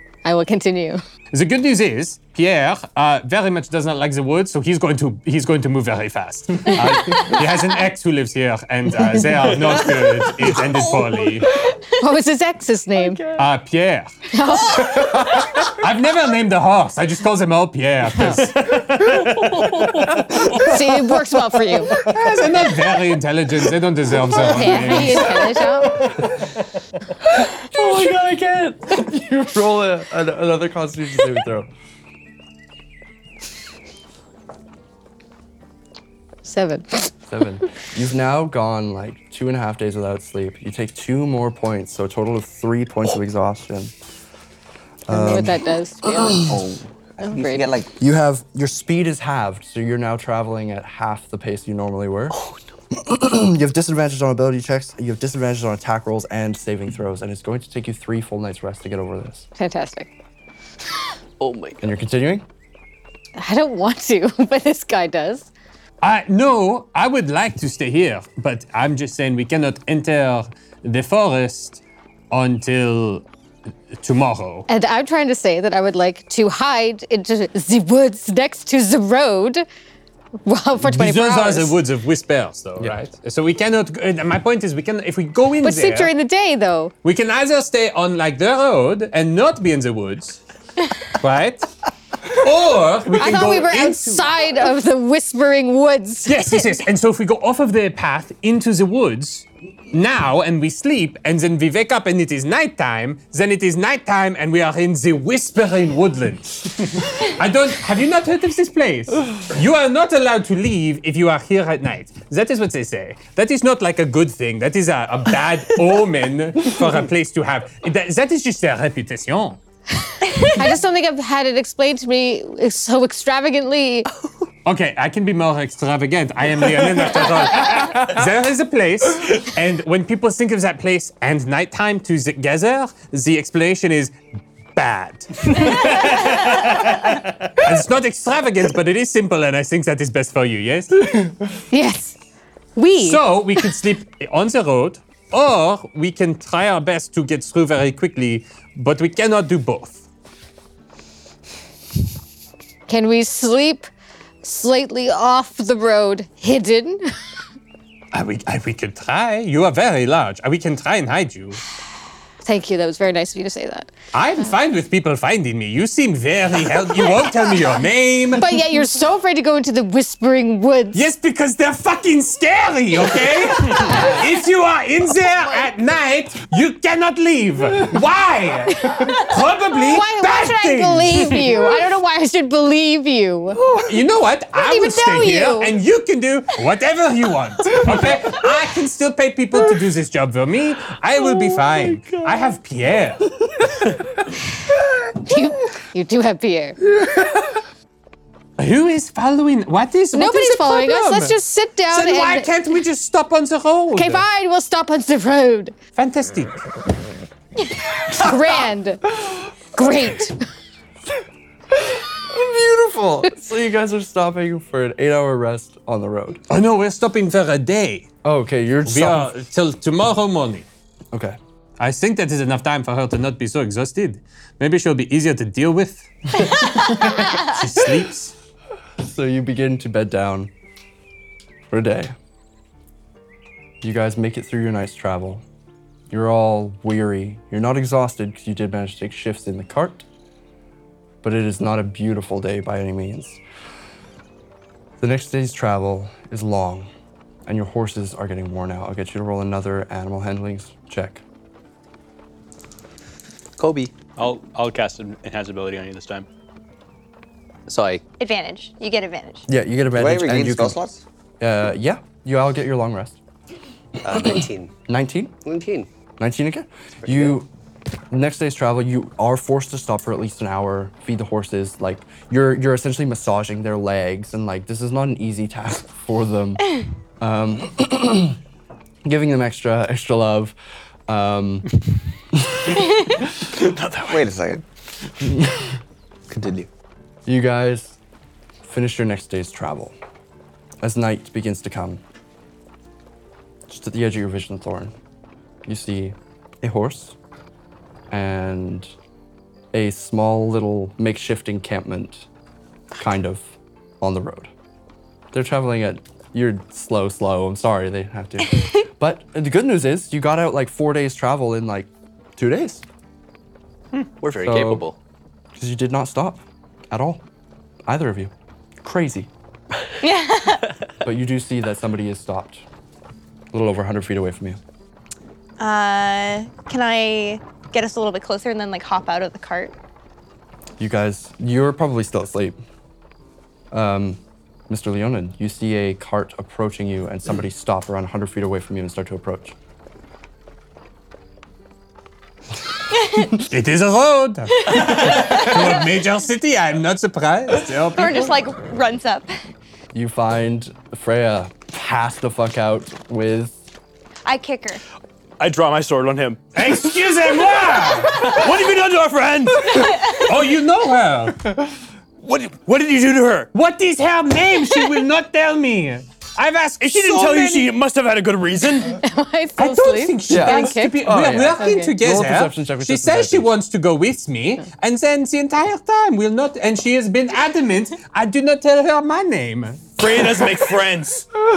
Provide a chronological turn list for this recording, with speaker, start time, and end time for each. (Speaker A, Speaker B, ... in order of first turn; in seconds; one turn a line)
Speaker A: 0.2-1.0
Speaker B: 1.3-11.5
Speaker A: 6.8-7.2
Speaker C: 10.4-11.7
Speaker A: 12.0-13.4
Speaker B: 13.3-14.1
Speaker A: 14.3-15.2
Speaker B: 15.6-20.4
Speaker A: 18.2-18.5
Speaker A: 20.6-21.9
Speaker B: 21.9-26.0
Speaker A: 24.4-26.1
Speaker D: 27.7-28.3
Speaker E: 27.7-28.8
Speaker D: 28.8-31.7
Speaker A: 36.4-37.1
Speaker D: 37.3-43.9
Speaker D: 45.1-45.6
Speaker A: 45.1-46.6
Speaker D: 46.2-46.5
Speaker F: 46.4-47.9
Speaker A: 47.2-47.7
Speaker D: 48.0-52.4
Speaker D: 52.9-59.5
Speaker A: 59.5-60.1
Speaker G: 61.4-61.9
Speaker D: 61.8-62.5
Speaker A: 63.4-65.5
Speaker B: 66.0-73.2
Speaker B: 73.9-74.7
Speaker A: 74.7-79.6
Speaker A: 80.5-81.8
Speaker B: 80.8-86.1
Speaker A: 85.6-86.9
Speaker B: 87.0-90.4
Speaker B: 91.1-91.7
Speaker B: 92.2-94.3
Speaker A: 93.1-96.8
Speaker B: 96.2-119.6
Speaker A: 120.5-124.1
Speaker B: 124.7-134.2
Speaker B: 134.7-141.2
Speaker A: 141.7-142.2
Speaker A: 142.8-143.6
Speaker B: 142.9-150.0
Speaker A: 152.9-153.9
Speaker A: 154.4-157.0
Speaker B: 158.1-161.6
Speaker A: 162.4-163.9
Speaker B: 164.1-168.6
Speaker A: 168.3-171.1
Speaker B: 170.9-181.8
Speaker A: 173.7-174.2
Speaker A: 178.7-183.6
Speaker B: 183.7-194.0
Speaker A: 184.5-185.8
Speaker A: 195.2-196.8
Speaker D: 197.1-197.3
Speaker B: 198.6-201.4
Speaker A: 200.1-202.6
Speaker B: 201.9-204.2
Speaker A: 203.9-205.8
Speaker B: 205.9-206.7
Speaker A: 208.1-209.1
Speaker A: 209.7-210.4
Speaker D: 211.7-216.4
Speaker B: 216.5-218.1
Speaker D: 218.2-219.3
Speaker B: 218.8-220.7
Speaker D: 221.1-221.4
Speaker B: 221.8-228.3
Speaker D: 229.0-230.5
Speaker D: 231.7-232.1
Speaker D: 233.8-235.4
Speaker D: 236.1-240.1
Speaker D: 241.2-243.4
Speaker D: 245.0-246.9
Speaker D: 247.4-251.2
Speaker G: 253.6-253.9
Speaker E: 254.2-256.2
Speaker G: 257.7-258.0
Speaker C: 258.2-259.4
Speaker D: 259.5-260.8
Speaker F: 259.9-261.0
Speaker D: 261.4-263.2
Speaker G: 264.0-264.7
Speaker D: 264.2-265.3
Speaker G: 265.4-265.9
Speaker D: 266.2-267.5
Speaker G: 267.0-267.4
Speaker D: 268.1-278.4
Speaker D: 279.0-280.6
Speaker D: 281.1-281.7
Speaker D: 282.3-283.2
Speaker E: 283.6-284.2
Speaker F: 284.0-284.6
Speaker D: 285.2-285.7
Speaker F: 286.3-286.7
Speaker D: 287.2-288.0
Speaker D: 288.6-289.9
Speaker D: 290.8-292.0
Speaker D: 293.7-294.9
Speaker D: 295.6-297.1
Speaker D: 298.1-298.9
Speaker D: 299.7-302.3
Speaker D: 302.9-304.5
Speaker D: 305.3-312.8
Speaker G: 314.2-315.0
Speaker D: 314.4-314.9
Speaker D: 315.5-317.2
Speaker D: 317.9-319.3
Speaker C: 320.0-320.7
Speaker D: 321.0-322.6
Speaker D: 323.5-324.6
Speaker C: 325.6-329.7
Speaker D: 330.8-332.6
Speaker D: 333.7-339.6
Speaker C: 342.9-343.3
Speaker B: 343.4-348.3
Speaker C: 344.6-344.9
Speaker C: 347.9-349.3
Speaker D: 349.9-353.6
Speaker C: 354.2-354.8
Speaker E: 355.4-356.7
Speaker B: 356.5-358.5
Speaker E: 357.5-360.2
Speaker B: 359.9-361.4
Speaker E: 362.2-363.5
Speaker B: 363.5-367.7
Speaker E: 366.8-369.0
Speaker A: 368.9-372.0
Speaker B: 369.6-379.8
Speaker D: 370.3-373.5
Speaker E: 380.0-381.3